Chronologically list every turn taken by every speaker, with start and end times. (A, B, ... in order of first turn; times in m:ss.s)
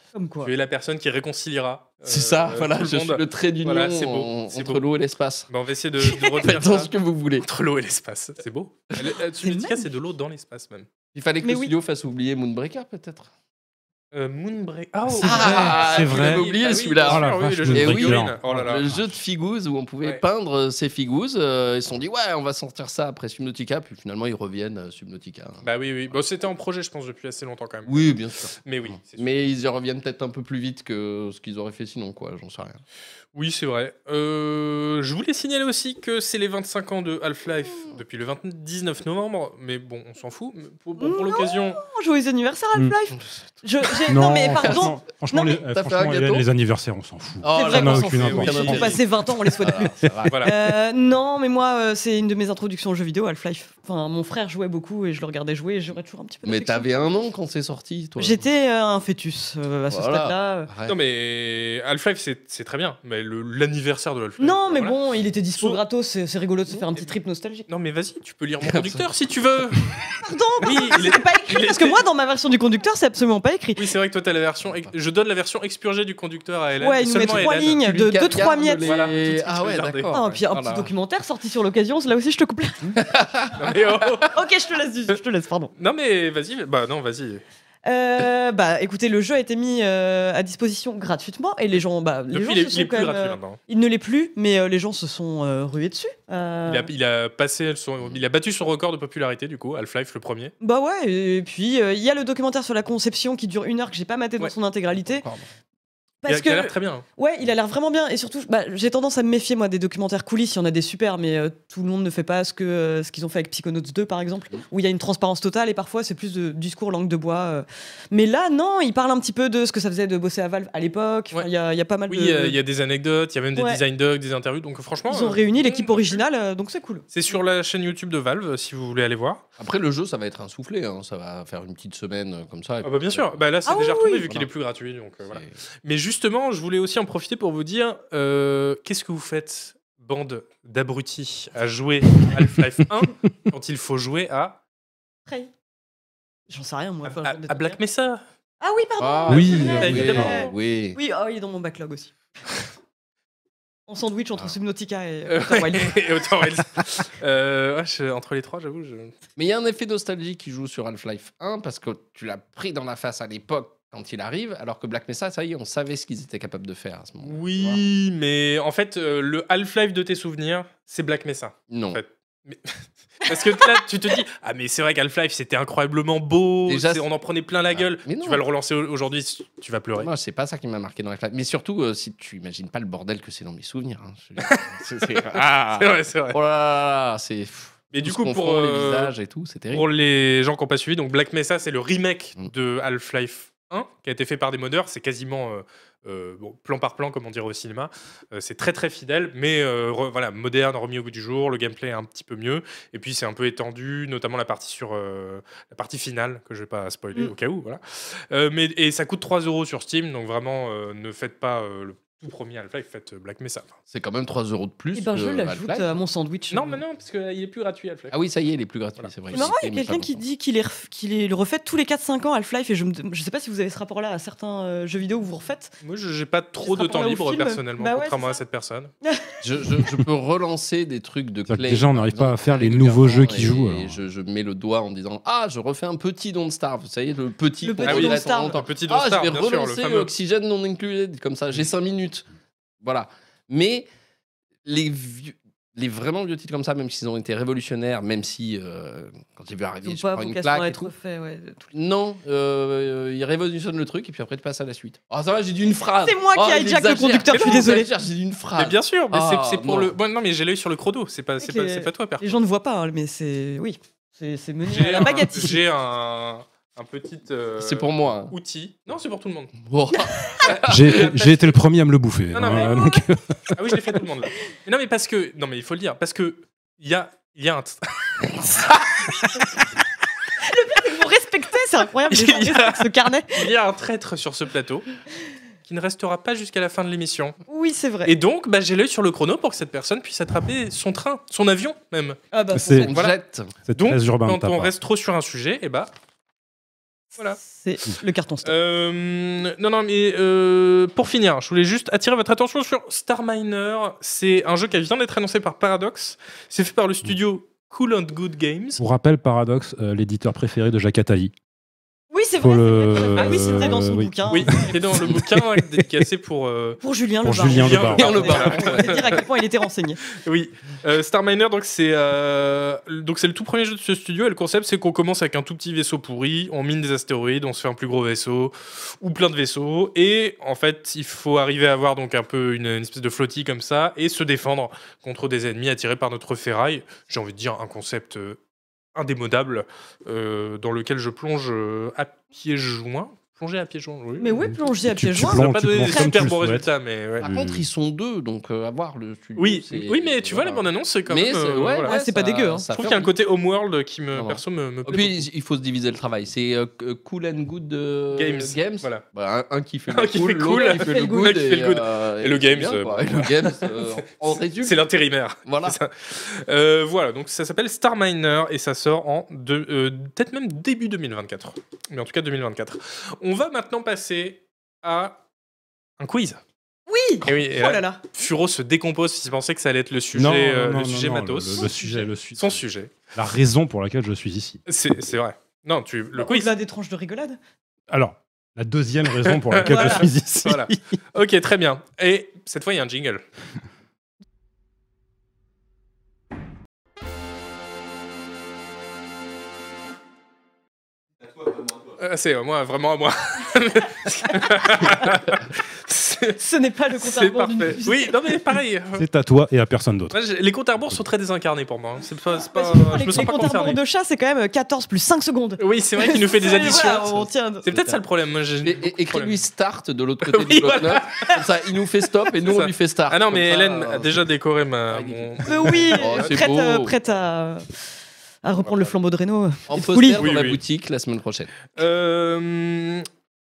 0:00.1-0:00.5 A
0:00.4-0:04.8 B
0:02.1-0:05.5 C
0:05.5-0:10.9 B
0:06.0-0:06.4 A
0:06.4-0:07.4 C
0:09.0-0:09.8 A
0:11.1-0:13.3 C
0:11.4-0:11.7 A
0:14.1-0:18.8 B
0:15.1-0:19.0 D
0:15.2-0:25.6 C
0:15.2-0:15.8 A
0:25.6-0:29.3 B
0:27.8-0:32.8 C
0:33.3-0:41.8 B
0:41.0-0:45.6 A
0:43.9-0:44.9 C
0:44.0-0:49.0 D
0:45.7-0:46.4 C
0:47.4-0:50.7 C
0:47.5-0:57.2 A
0:48.2-0:48.8 B
0:50.0-0:50.3 D
0:50.3-0:50.5 B
0:56.4-0:58.4 C
0:58.2-1:00.7 A
0:59.9-1:01.0 C
1:00.8-1:05.0 B
1:04.4-1:07.6 A
1:07.7-1:09.9 B
1:08.6-1:09.0 C
1:10.2-1:13.8 A
1:10.6-1:12.0 B
1:13.8-1:17.8 B
1:16.8-1:18.9 A
1:17.8-1:20.9 C
1:18.8-1:20.4 B
1:20.1-1:23.0 A
1:23.0-1:24.3 C
1:23.6-1:24.3 B
1:24.3-1:25.7 A
1:25.8-1:27.4 B
1:27.8-1:36.9 A
1:32.3-1:33.6 B
1:36.7-1:40.5 B
1:40.6-1:45.2 A
1:45.0-1:45.5 C
1:46.2-2:02.6 A
1:46.3-1:47.0 B
2:02.1-2:06.2 B
2:03.5-2:03.8 A
2:05.1-2:07.0 A
2:07.1-2:09.4 B
2:09.6-2:13.4 C
2:12.8-2:24.6 B
2:13.6-2:14.2 A
2:15.3-2:15.5 C
2:26.5-2:27.8 A
2:27.0-2:28.2 B
2:28.6-2:32.1 A
2:29.0-2:31.0 C
2:29.3-2:30.3 D
2:29.7-2:30.4 B
2:33.9-2:36.0 A
2:35.3-2:39.1 B
2:39.4-2:47.8 C
2:47.2-3:00.1 B
2:51.7-2:52.0 C
2:56.7-2:57.0 C
2:57.7-2:58.4 C
3:00.0-3:09.9 C
3:04.4-3:06.4 B
3:07.9-3:09.1 B
3:09.7-3:33.8 B
3:33.9-3:36.0 C
3:34.9-3:36.8 A
3:36.5-3:38.2 B
3:38.1-3:40.2 C
3:39.0-3:39.5 B
3:39.3-3:45.7 A
3:45.8-3:48.9 B
3:46.6-3:48.4 A
3:49.0-3:49.9 A
3:49.4-4:02.3 C
3:51.5-3:54.0 D
3:57.6-3:58.6 A
3:57.8-4:00.1 B
4:02.8-4:03.9 C
4:04.6-4:10.9 C
4:09.8-4:11.7 A
4:11.7-4:19.9 C
4:16.0-4:17.9 A
4:17.3-4:17.8 B
4:18.6-4:22.2 B
4:21.4-4:25.6 A
4:24.7-4:29.6 B
4:27.6-4:28.3 C
4:29.6-4:31.0 C
4:29.9-4:30.5 A
4:30.4-4:31.5 B
4:30.7-4:34.0 D
4:32.3-4:32.9 B
4:33.5-4:39.5 B
4:40.4-4:43.5 A
4:42.1-4:44.8 B
4:45.6-4:47.4 B
4:47.5-4:48.1 A
4:48.0-4:52.2 B
4:52.3-4:53.0 A
4:52.5-4:52.9 D
4:52.8-4:53.5 C
4:52.9-4:53.2 B
4:53.6-4:54.7 D
4:53.7-4:55.9 B
4:57.4-4:58.5 A
4:58.4-5:08.8 B
5:08.8-5:11.3 D
5:12.1-5:15.2 A
5:12.4-5:14.6 D
5:13.1-5:13.7 B
5:14.3-5:16.8 B
5:16.8-5:20.0 A
5:17.2-5:18.2 D
5:17.4-5:19.2 B
5:17.9-5:19.2 C
5:20.1-5:38.4 B
5:38.9-5:44.5 B
5:44.2-5:46.2 A
5:44.5-5:46.7 D
5:45.2-5:47.2 B
5:47.2-5:47.6 D
5:47.2-5:53.1 C
5:49.4-5:51.9 B
5:51.8-5:52.7 A
5:52.7-5:55.2 B
5:54.1-6:04.8 C
5:58.1-5:59.0 B
5:59.9-6:15.2 B
6:00.5-6:01.4 A
6:05.4-6:05.8 C
6:16.0-6:16.4 B
6:16.9-6:18.0 A
6:17.2-6:22.9 B
6:20.1-6:22.6 D
6:23.1-6:24.6 D
6:24.7-6:26.5 B
6:26.2-6:27.4 A
6:27.9-6:30.8 D
6:29.2-6:33.2 B
6:29.6-6:30.1 A
6:42.0-6:46.4 B
6:46.4-6:48.3 A
6:47.0-6:49.0 B
6:48.9-6:50.2 D
6:50.1-6:53.8 B
6:52.5-6:57.7 A
6:55.6-6:59.4 B
6:56.6-6:57.1 C
6:57.7-6:58.0 C
6:58.6-7:04.2 C
7:00.2-7:01.5 B
7:02.3-7:06.4 B
7:04.9-7:06.9 C
7:05.4-7:07.7 A
7:08.4-7:10.3 A
7:09.7-7:11.5 C
7:10.2-7:10.6 B
7:11.7-7:13.1 B